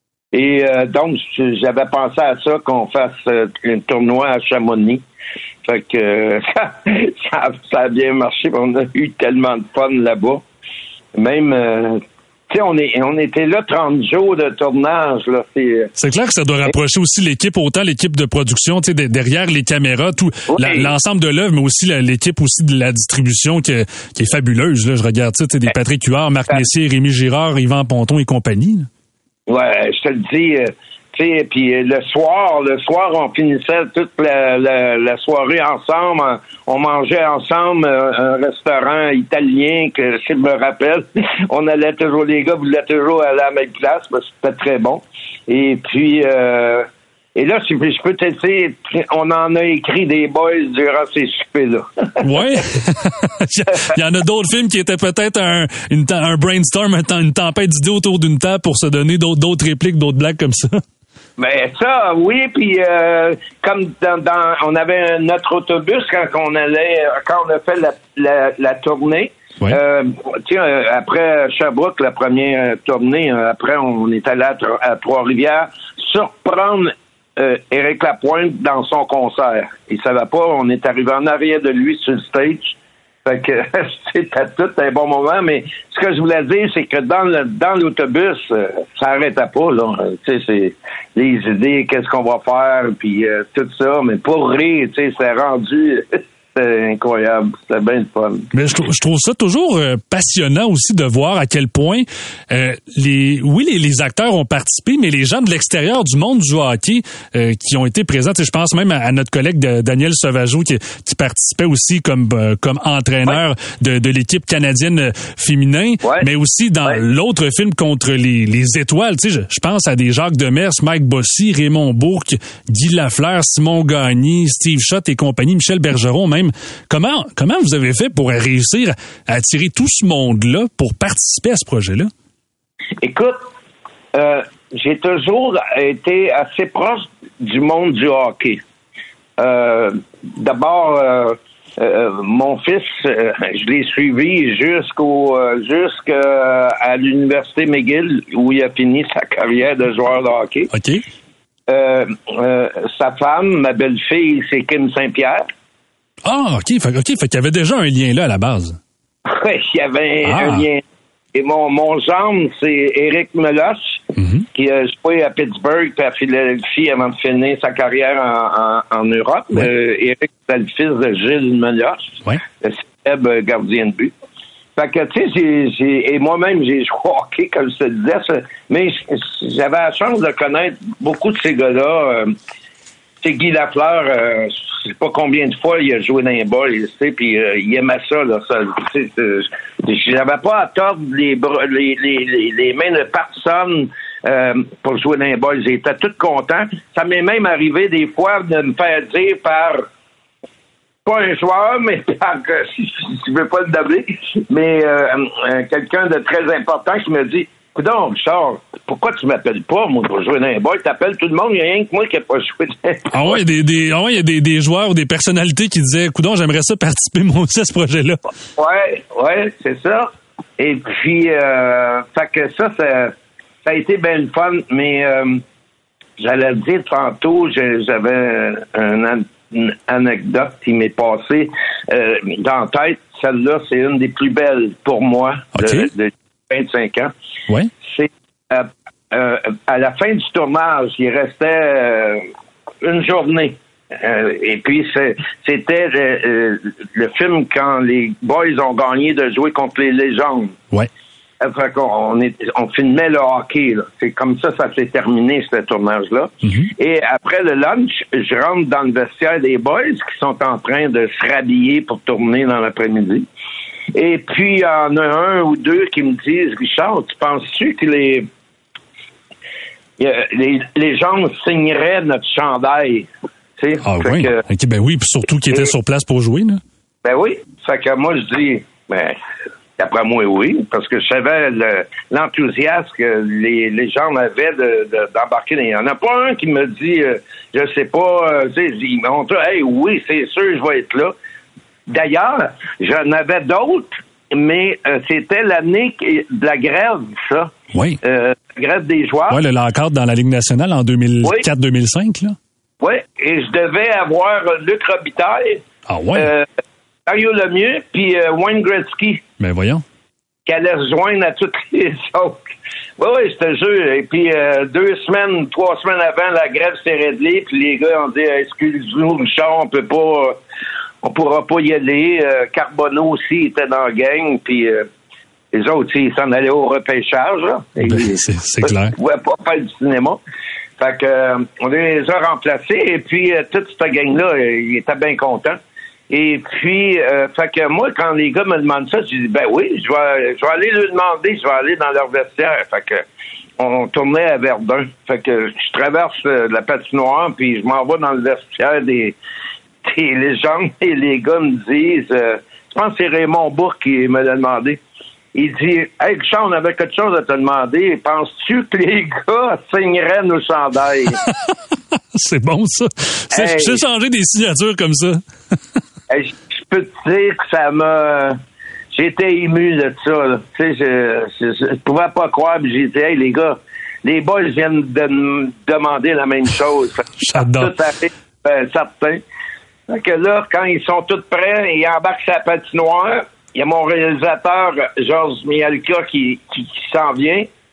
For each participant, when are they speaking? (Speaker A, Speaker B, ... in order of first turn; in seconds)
Speaker A: 0.3-5.0, 5.6-10.4, 11.1-15.9, 20.5-20.9, 29.5-52.2, 61.4-98.5, 133.0-133.4, 134.1-138.6, 139.4-150.7, 151.7-155.5, 159.2-160.8, 161.3-164.0, 164.5-174.1, 174.8-182.3, 183.2-199.8, 201.1-213.4, 218.6-223.1, 223.6-225.4, 226.2-237.1, 237.9-242.2, 242.8-250.5, 251.4-263.2, 263.9-268.3, 270.0-273.1, 273.6-274.4, 277.1-279.2, 279.8-291.1, 291.9-297.5, 298.0-299.4, 302.8-305.6, 306.1-306.5, 307.1-309.2, 310.5-312.4, 313.0-320.4, 321.0-324.9, 325.5-330.2, 330.8-335.6, 336.1-343.0, 343.6-349.2, 349.9-354.8, 355.4-361.2, 363.3-363.8, 366.1-368.4, 368.9-379.2, 379.9-387.5
Speaker B: 16.0-28.9, 52.2-60.8, 98.5-132.1, 150.7-151.0, 156.2-158.8, 160.2-160.7, 164.2-164.4, 213.1-218.2, 235.6-235.9, 256.4-256.7, 273.9-276.6, 297.7-298.0, 299.3-302.4, 305.9-306.3, 309.4-309.8, 327.8-328.9, 361.2-361.5, 362.1-365.2, 377.2-377.8